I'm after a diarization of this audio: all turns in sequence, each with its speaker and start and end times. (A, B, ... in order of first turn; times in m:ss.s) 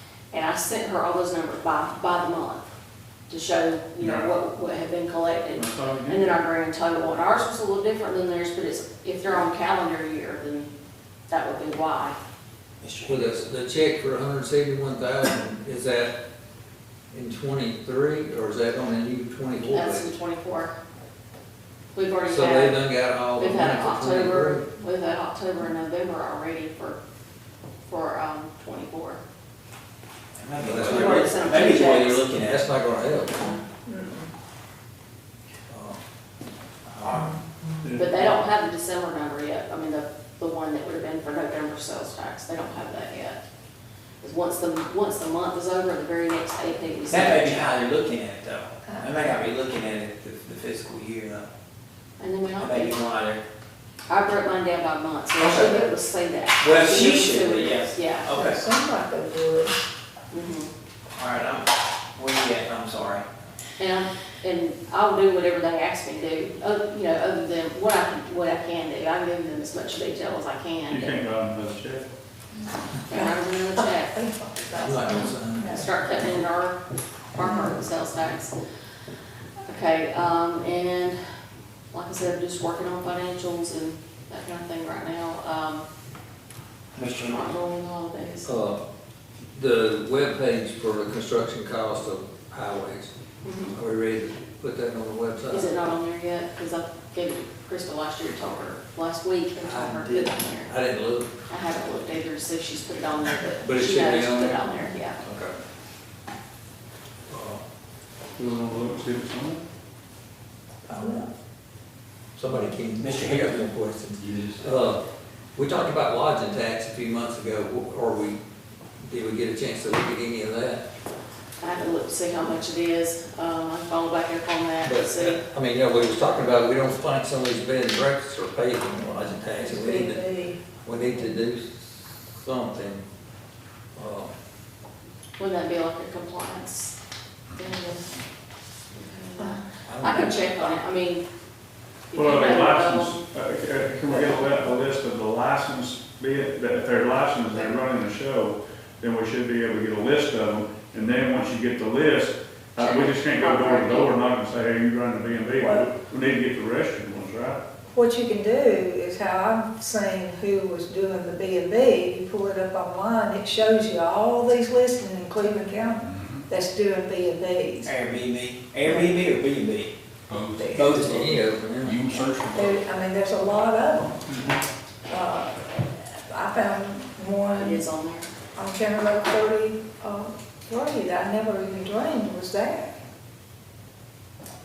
0:00.3-0:02.7 A
0:03.3-0:10.7 A
0:04.0-0:04.3 B
0:05.6-0:06.3 B
0:11.3-0:12.2 A
0:12.8-0:13.5 C
0:13.0-0:16.2 D
0:17.1-0:20.1 D
0:19.6-0:20.8 A
0:21.9-0:22.8 A
0:22.3-0:24.7 D
0:23.4-0:27.0 A
0:27.9-0:29.2 A
0:30.4-0:32.6 C
0:30.6-0:31.4 D
0:30.8-0:32.2 A
0:32.3-0:33.5 D
0:33.8-0:34.3 E
0:35.7-0:36.0 D
0:37.0-0:37.3 C
0:37.8-0:38.3 B
0:38.0-0:43.4 A
0:44.2-0:47.8 A
0:47.1-0:51.5 C
0:52.2-0:53.0 A
0:52.6-0:53.4 C
0:54.1-0:58.3 A
0:55.4-0:55.9 C
0:56.6-0:58.6 C
0:58.3-0:59.8 E
1:00.3-1:00.7 A
1:01.2-1:03.3 C
1:03.8-1:11.2 A
1:10.9-1:12.1 B
1:13.1-1:14.2 A
1:13.1-1:15.9 E
1:14.7-1:15.9 D
1:15.6-1:16.8 A
1:17.3-1:18.5 A
1:19.6-1:21.2 A
1:21.9-1:25.9 A
1:27.0-1:27.5 C
1:27.3-1:28.6 A
1:28.4-1:28.8 D
1:29.5-1:33.1 D
1:33.4-1:33.8 A
1:33.6-1:35.7 D
1:35.5-1:40.7 A
1:39.6-1:41.3 D
1:41.5-1:45.2 A
1:43.6-1:44.6 D
1:45.2-1:45.6 D
1:47.3-1:47.6 D
1:48.4-1:49.6 B
1:50.9-1:51.2 D
1:52.4-1:55.0 D
1:53.0-1:53.7 C
1:55.6-1:58.4 D
1:59.0-2:00.8 D
2:01.6-2:05.4 A
2:04.8-2:10.2 D
2:09.6-2:10.6 E
2:10.8-2:13.0 D
2:14.0-2:14.3 D
2:15.4-2:17.0 A
2:17.6-2:18.2 A
2:19.0-2:21.2 A
2:19.8-2:20.7 D
2:22.1-2:23.2 A
2:22.1-2:37.6 B
2:32.8-2:34.1 A
2:35.6-2:35.9 E
2:37.9-2:47.9 E
2:46.0-2:46.5 F
2:47.8-2:49.9 C
2:50.3-2:50.8 F
2:50.6-2:51.3 E
2:50.7-2:52.0 D
2:50.8-2:51.4 C
2:51.8-2:52.8 F
2:52.5-2:54.3 E
2:55.1-2:57.8 E
2:57.6-2:58.3 A
2:58.6-3:03.0 E